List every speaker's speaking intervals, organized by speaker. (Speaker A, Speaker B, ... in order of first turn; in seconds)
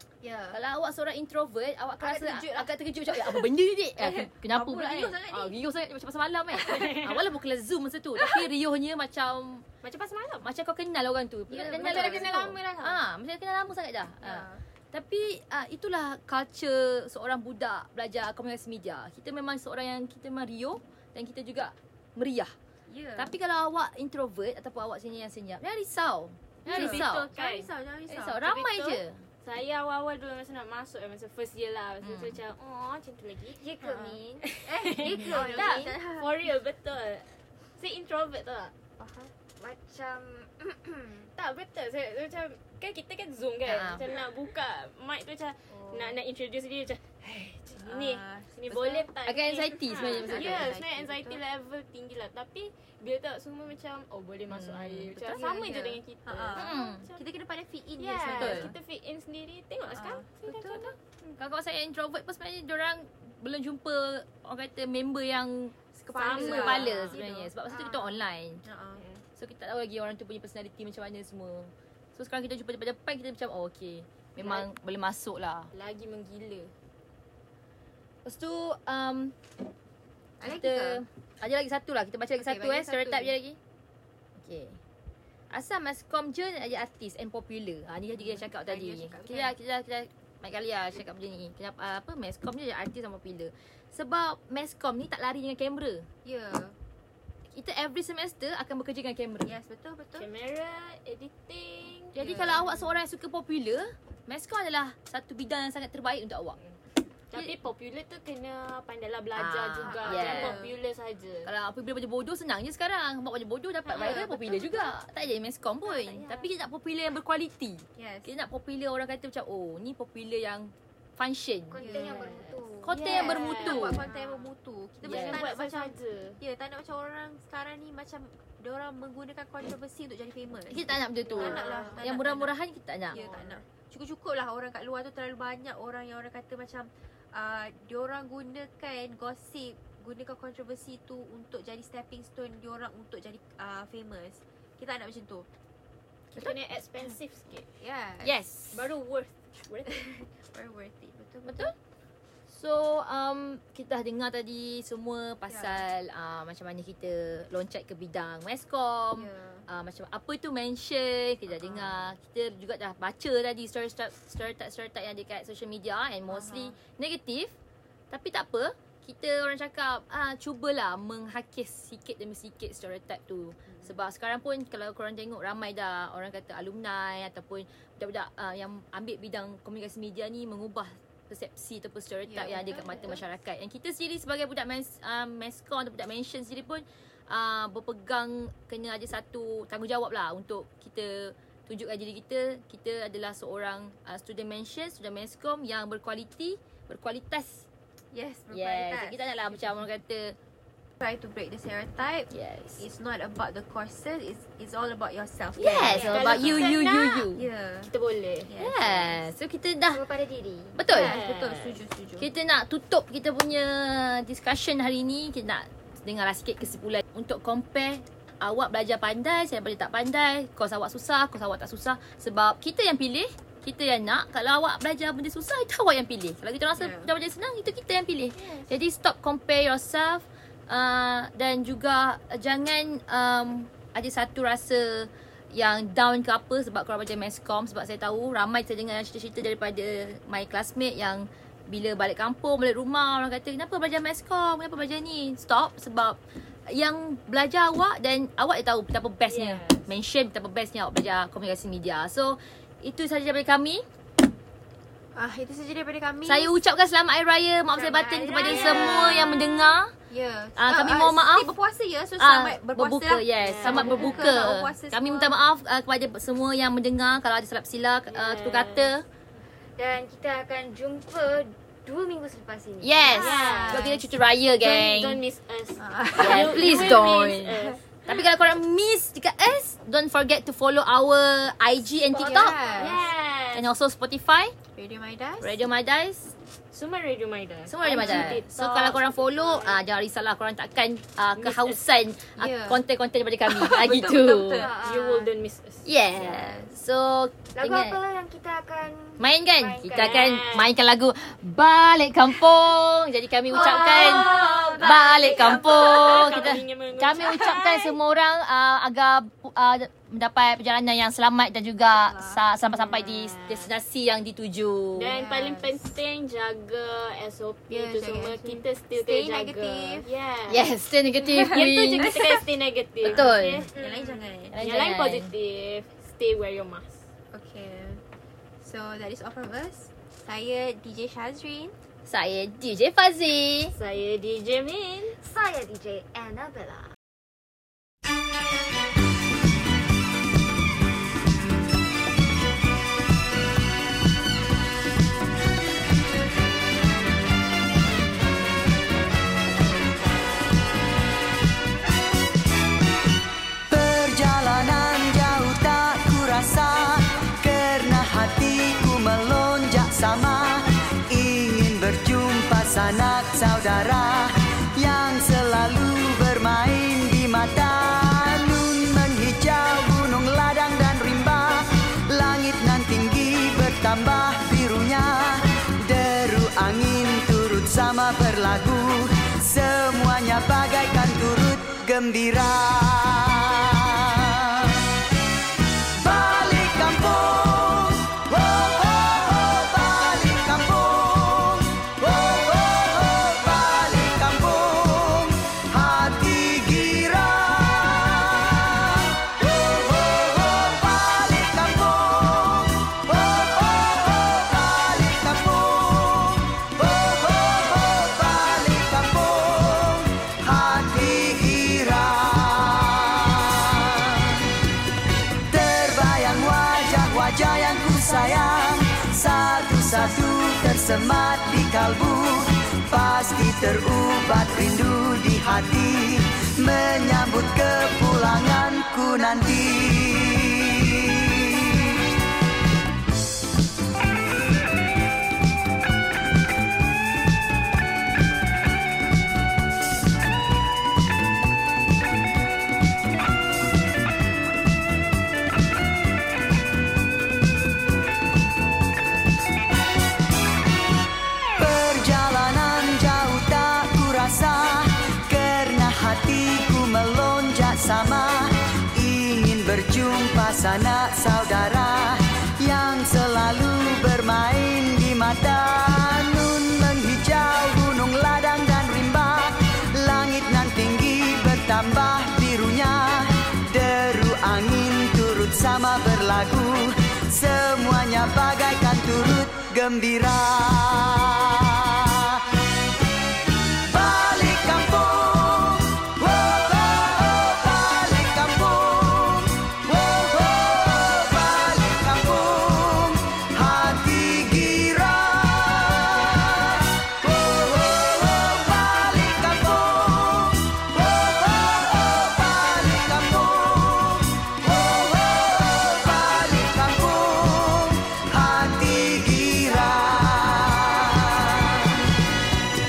Speaker A: 0.2-0.6, 2.0-5.6, 6.5-7.2, 8.2-8.5, 11.5-12.6, 14.2-14.6, 22.9-23.3, 26.6-28.5, 33.8-36.5, 39.0-39.3, 45.8-46.1, 47.8-49.1, 50.1-51.4, 55.1-58.8, 59.9-60.9, 66.0-67.5, 68.6-69.0, 80.4-81.0, 82.4-83.3, 88.2-89.5, 96.2-96.8, 99.4-100.3, 102.1-102.8, 109.9-110.7, 113.9-114.9, 118.0-118.3, 121.8-132.6, 133.1-145.5, 147.8-148.4, 149.8-151.7, 155.5-155.8, 159.1-159.7, 161.5-162.1, 166.3-166.8, 173.7-174.0, 182.2-183.3, 198.1-199.3, 201.0-206.7, 207.3-209.2, 210.8-212.3, 226.7-227.1, 255.1-256.6, 257.7-265.4, 273.0-274.1, 275.8-277.1, 281.9-283.1, 284.7-285.6, 288.0-288.4, 292.4-292.8, 293.4-294.8, 296.1-296.8, 303.5-306.5, 311.9-312.4, 315.1-315.9, 317.7-320.1, 321.2-322.3, 323.1-324.5, 327.3-328.0, 328.6-331.8
Speaker B: 0.5-9.7, 10.4-22.5, 23.2-27.3, 28.1-29.2, 32.0-32.4, 35.4-35.8, 43.6-44.0, 49.2-50.7, 54.5-55.4, 56.5-57.0, 58.3-58.7, 61.4-65.8, 66.3-68.6, 69.3-75.7, 78.2-79.3, 80.4-83.6, 84.4-84.8, 85.5-96.1, 97.5-99.5, 102.1-106.6, 109.3-110.6, 111.4-121.8, 122.8-124.0, 125.0-125.5, 130.7-133.2, 148.2-148.9, 151.4-151.7, 152.5-167.5, 168.1-197.7, 198.5-200.4, 202.3-202.8, 205.6-207.4, 208.6-210.0, 210.8-211.2, 212.2-253.8, 256.2-259.9, 260.6-261.5, 262.2-269.0, 272.8-275.2, 276.2-283.0, 283.5-284.5, 285.4-286.3, 287.7-294.7, 295.9-298.0, 299.2-315.1, 320.5-322.4, 323.0-323.6, 324.5-325.3, 332.1-333.7
Speaker C: 9.8-10.5, 11.5-13.0, 26.7-27.7, 28.4-33.6, 34.5-38.7, 41.4-57.2, 58.0-61.3, 66.1-67.5, 69.0-69.2, 74.4-74.7, 75.7-76.7, 100.2-102.8, 107.3-111.5, 113.8-114.8, 115.9-116.4, 121.9-124.3, 125.0-126.4, 131.2-132.0, 146.3-147.7, 148.7-150.1, 205.7-207.3, 207.9-208.5, 210.9-211.8, 249.3-249.9, 258.4-259.6, 263.4-264.5, 268.1-268.9, 273.1-273.9, 274.6-278.1, 282.7-283.7, 286.7-289.8, 291.4-291.8, 294.8-295.9, 299.9-300.7, 303.8-307.9, 312.6-313.7, 314.9-320.7, 321.3-327.1, 333.7-335.2
Speaker D: 33.5-34.5, 35.0-35.9, 39.5-41.3, 67.7-68.2, 121.7-123.0, 205.7-206.3, 209.9-210.8, 269.8-273.2, 294.6-295.3, 297.5-300.3, 335.2-336.9
Speaker E: 353.7-384.8, 385.9-414.4, 415.5-432.0, 451.6-482.4, 483.8-512.0